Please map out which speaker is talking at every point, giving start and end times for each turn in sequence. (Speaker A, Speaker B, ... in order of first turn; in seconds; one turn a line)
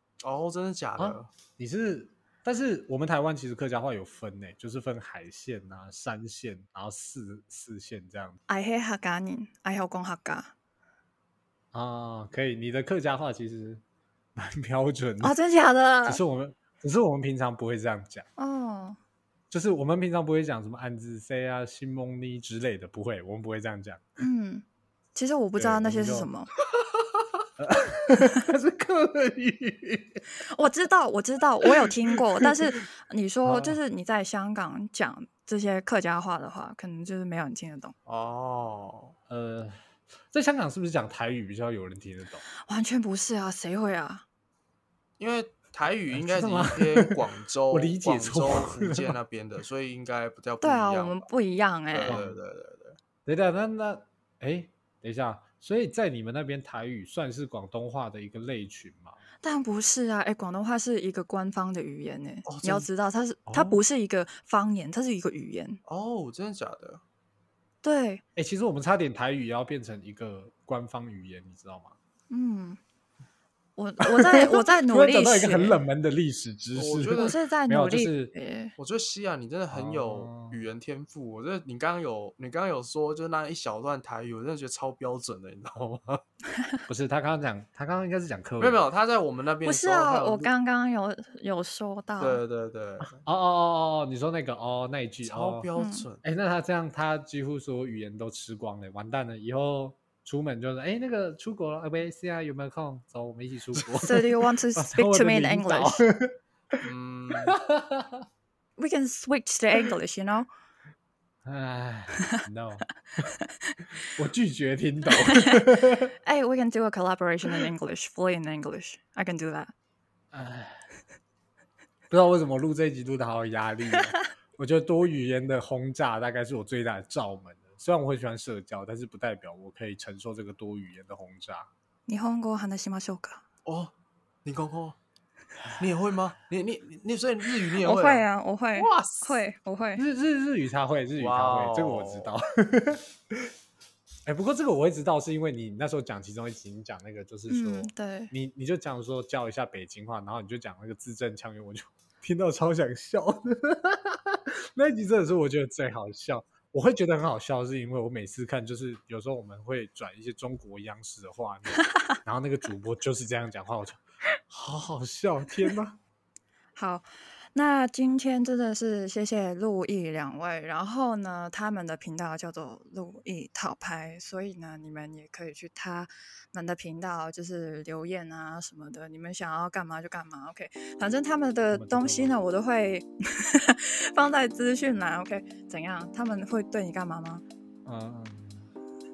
Speaker A: 0.2-1.3
Speaker B: 1.0-8.4
Speaker C: 8.5-10.5
Speaker B: 11.7-13.8
Speaker B: 14.3-15.4
Speaker C: 15.2-16.2
Speaker B: 16.0-18.3
Speaker C: 18.4-19.0
Speaker B: 19.5-24.1
Speaker C: 24.2-26.5
Speaker B: 25.6-26.3
Speaker B: 27.6-30.2
Speaker C: 30.5-37.9
Speaker B: 33.4-33.8
Speaker A: 38.0-39.1
Speaker B: 39.3-42.4
Speaker C: 42.6-44.2
Speaker A: 45.2-51.3
Speaker B: 46.1-49.1
Speaker C: 50.6-52.2
Speaker A: 51.9-53.0
Speaker B: 52.1-52.4
Speaker B: 53.2-59.2
Speaker C: 59.4-65.8
Speaker A: 62.4-62.9
Speaker B: 63.5-63.8
Speaker A: 65.8-67.0
Speaker C: 67.8-68.2
Speaker B: 68.3-72.0
Speaker C: 72.3-72.8
Speaker C: 73.8-75.8
Speaker B: 74.2-78.3
Speaker A: 76.7-77.4
Speaker C: 77.2-78.7
Speaker A: 78.8-86.2
Speaker B: 79.7-80.7
Speaker B: 86.9-88.8
Speaker A: 88.6-90.5
Speaker C: 89.6-92.4
Speaker A: 92.2-93.2
Speaker B: 93.1-95.7
Speaker A: 95.2-96.2
Speaker C: 95.8-96.0
Speaker B: 96.2-106.8
Speaker C: 104.0-106.1
Speaker A: 106.8-107.5
Speaker B: 107.5-108.2
Speaker C: 108.8-110.5
Speaker B: 111.4-112.8
Speaker B: 114.1-116.1
Speaker C: 116.2-119.7
Speaker B: 120.3-120.8
Speaker B: 122.1-131.7
Speaker C: 132.1-133.4
Speaker A: 133.6-133.9
Speaker A: 134.4-135.0
Speaker A: 135.8-139.4
Speaker C: 137.8-140.0
Speaker B: 140.0-143.1
Speaker A: 141.2-142.3
Speaker B: 144.2-166.0
Speaker C: 147.5-148.3
Speaker C: 166.8-187.4
Speaker B: 181.7-182.4
Speaker B: 187.8-188.7